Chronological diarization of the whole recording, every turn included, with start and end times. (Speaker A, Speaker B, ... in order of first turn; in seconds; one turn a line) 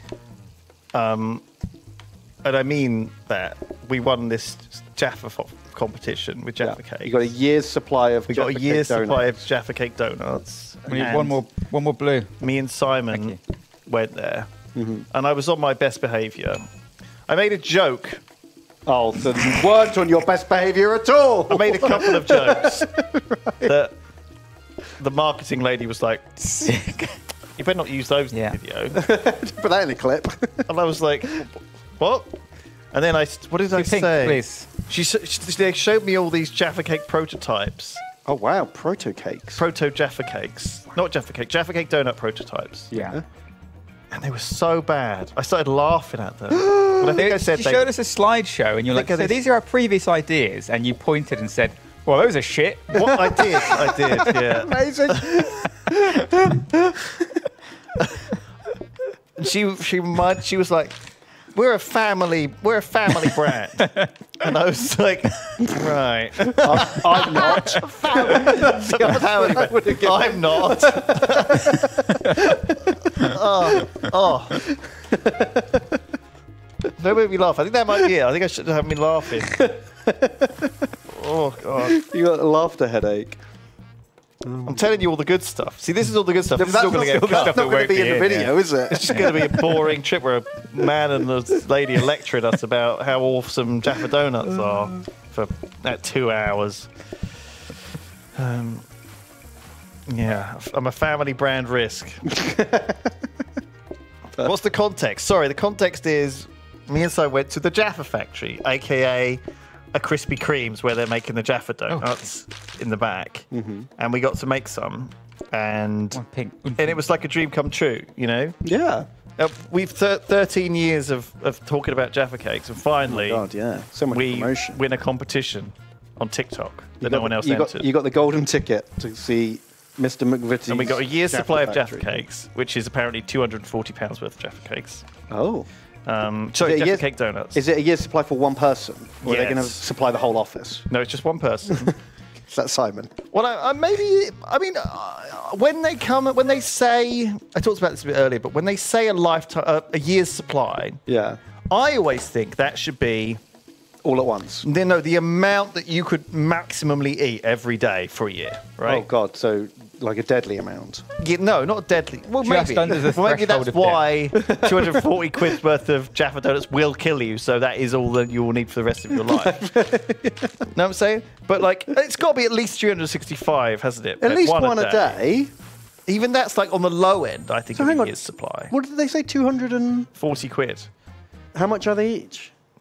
Speaker A: 0.9-1.4
Speaker A: 2.4-7.3
Speaker B: 6.6-9.4
Speaker A: 8.3-11.4
Speaker C: 10.9-12.3
Speaker A: 12.4-14.5
Speaker C: 13.1-13.4
Speaker B: 14.7-15.1
Speaker A: 15.1-16.6
Speaker A: 17.3-18.2
Speaker B: 18.9-23.7
Speaker A: 21.5-22.9
Speaker A: 23.6-23.9
Speaker A: 25.0-26.5
Speaker C: 26.5-27.1
Speaker A: 27.6-29.0
Speaker C: 28.3-28.6
Speaker B: 28.9-30.7
Speaker A: 30.7-32.4
Speaker A: 32.9-38.0
Speaker C: 33.7-34.7
Speaker B: 38.2-39.6
Speaker A: 39.6-42.9
Speaker C: 42.9-43.2
Speaker B: 42.9-43.2
Speaker A: 44.1-47.9
Speaker B: 46.5-47.3
Speaker C: 47.1-53.1
Speaker A: 48.9-49.4
Speaker A: 52.9-55.5
Speaker B: 53.0-57.4
Speaker A: 59.4-60.9
Speaker A: 61.5-71.8
Speaker C: 63.8-64.1
Speaker B: 66.6-73.0
Speaker C: 71.8-72.3
Speaker A: 73.1-74.6
Speaker B: 74.7-76.0
Speaker A: 77.0-79.6
Speaker B: 79.5-80.9
Speaker A: 81.1-82.0
Speaker B: 81.8-83.4
Speaker B: 84.4-84.9
Speaker A: 84.6-87.6
Speaker B: 86.5-89.8
Speaker C: 86.6-88.5
Speaker A: 88.9-97.0
Speaker A: 98.3-98.8
Speaker A: 100.1-102.3
Speaker B: 102.3-103.1
Speaker A: 104.4-109.4
Speaker A: 109.9-116.2
Speaker B: 113.5-113.9
Speaker C: 116.1-117.0
Speaker A: 116.8-118.5
Speaker B: 118.6-119.1
Speaker A: 119.4-123.5
Speaker B: 123.0-124.8
Speaker A: 124.1-127.9
Speaker B: 127.0-132.2
Speaker A: 130.7-135.1
Speaker B: 135.3-135.7
Speaker A: 136.1-137.6
Speaker B: 136.6-140.9
Speaker A: 139.2-139.8
Speaker A: 140.9-141.9
Speaker B: 142.5-143.1
Speaker A: 143.3-151.0
Speaker B: 151.1-151.4
Speaker A: 151.7-153.4
Speaker B: 154.0-154.7
Speaker A: 154.6-159.1
Speaker B: 158.8-161.0
Speaker A: 161.2-169.6
Speaker C: 162.4-164.1
Speaker B: 164.4-165.1
Speaker B: 169.1-170.5
Speaker A: 170.7-175.2
Speaker B: 174.2-175.5
Speaker A: 176.1-178.7
Speaker B: 177.7-180.1
Speaker A: 180.1-180.9
Speaker B: 181.5-182.5